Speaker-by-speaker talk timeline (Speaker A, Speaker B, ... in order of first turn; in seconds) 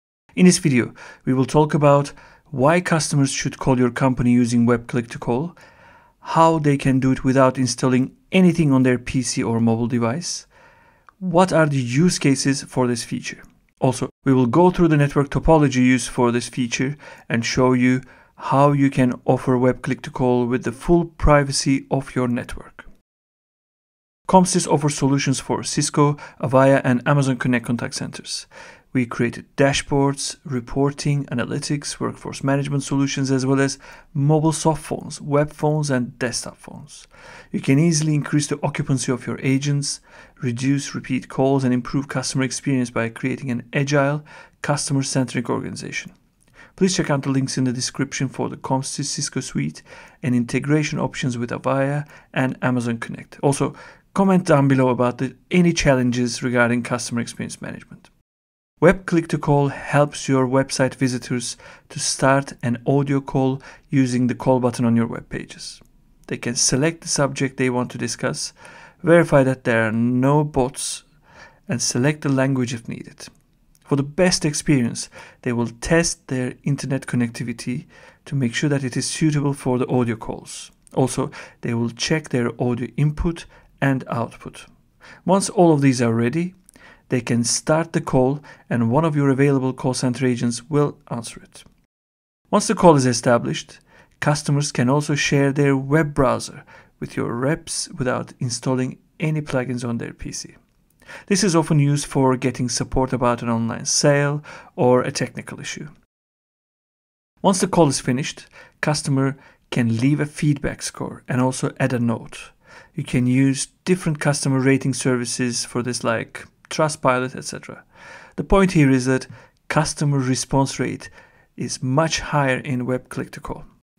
Speaker A: 0.3-5.6, 6.2-10.5, 11.2-22.9, 24.3-46.1, 46.8-58.1, 58.8-71.1, 71.7-73.3, 73.9-84.7, 85.2-86.6, 87.1-91.7, 92.5-100.6, 101.3-105.9, 107.4-117.8, 118.4-123.6